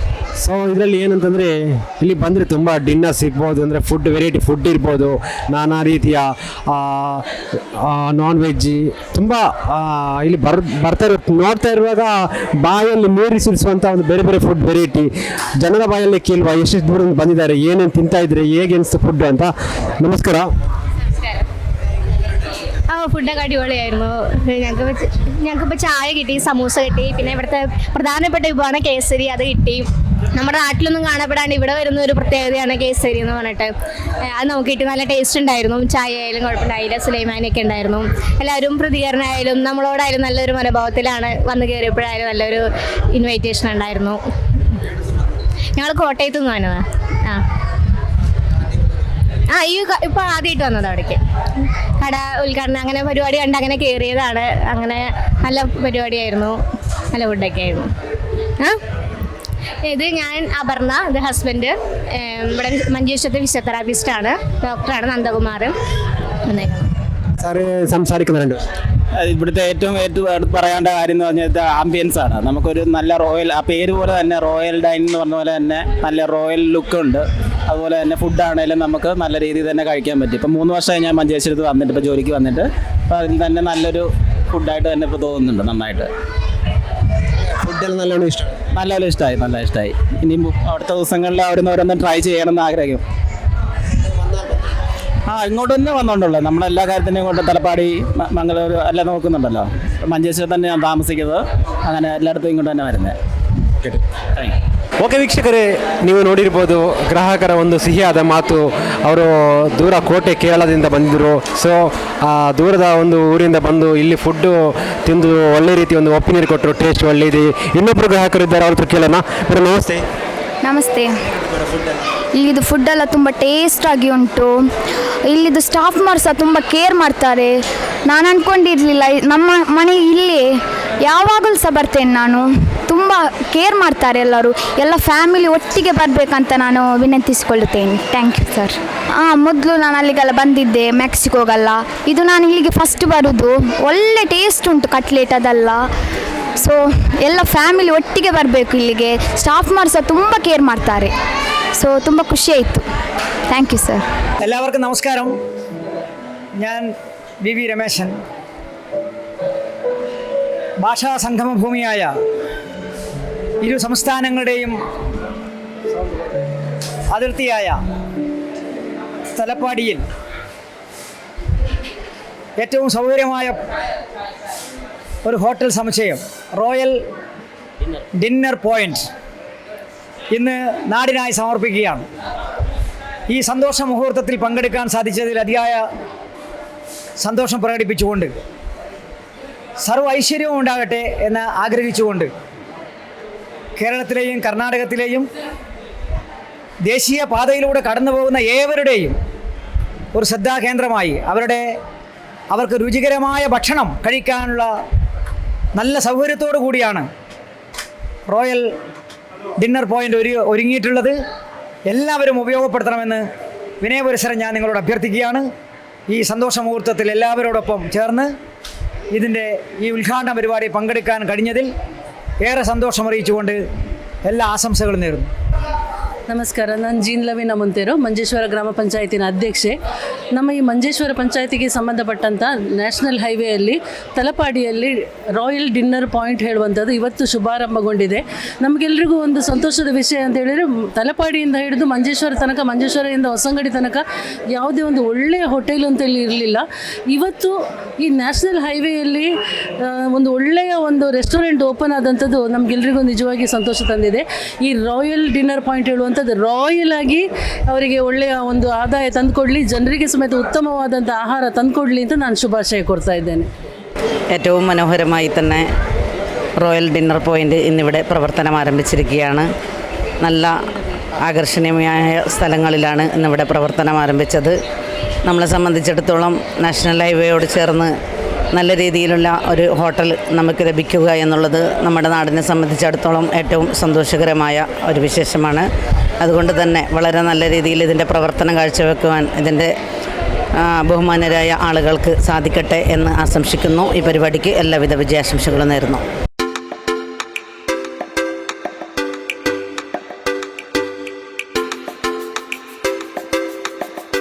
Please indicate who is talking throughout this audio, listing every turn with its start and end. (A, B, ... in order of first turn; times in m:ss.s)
0:00.4-0:07.2 A
0:07.8-0:20.5 A
0:21.2-0:21.4 B
0:22.9-0:33.7 B
0:34.2-0:44.2 B
0:45.8-0:47.4 B
0:49.5-0:51.2 B
0:52.0-0:56.6 B
0:57.1-0:57.9 B
0:59.8-1:05.7 B
1:06.5-1:06.9 B
1:07.4-1:08.6 A
1:09.2-1:26.1 C
1:27.6-1:28.4 A
1:28.7-1:33.0 C
1:35.3-1:43.1 C
1:43.8-1:44.5 C
1:45.0-2:00.0 A
2:00.6-2:01.1 D
2:02.4-2:04.6 D
2:05.2-2:10.5 D
2:11.0-2:25.8 D
2:26.6-2:31.1 D
2:31.8-2:32.8 D
2:33.5-2:34.0 D
2:34.4-2:35.3 E
2:36.6-2:36.9 E
2:37.4-2:38.1 E
2:40.8-2:42.1 E
2:43.6-2:44.7 E
2:45.9-2:46.4 A
2:47.1-2:47.7 E
2:49.3-2:50.0 E
2:52.6-2:53.6 E
2:55.2-2:57.0 E
2:58.2-2:59.0 E
3:00.3-3:02.0 E
3:03.3-3:05.8 E
3:07.2-3:08.3 E
3:09.8-3:12.3 E
3:13.8-3:15.3 E
3:16.9-3:19.1 E
3:20.1-3:21.7 E
3:22.5-3:24.7 E
3:25.8-3:27.0 E
3:28.3-3:28.6 E
3:29.6-3:31.2 E
3:31.9-3:33.2 E
3:33.8-3:35.5 E
3:36.1-3:38.3 E
3:39.1-3:41.7 E
3:42.4-3:43.6 E
3:44.2-3:45.3 E
3:46.3-3:49.7 F
3:50.3-4:09.3 F
4:09.8-4:23.5 F
4:24.3-4:25.7 G
4:26.6-4:29.5 G
4:30.2-4:30.5 G
4:31.2-4:34.5 G
4:35.2-4:37.9 G
4:38.5-4:45.7 G
4:46.2-4:49.7 G
4:50.6-4:56.0 G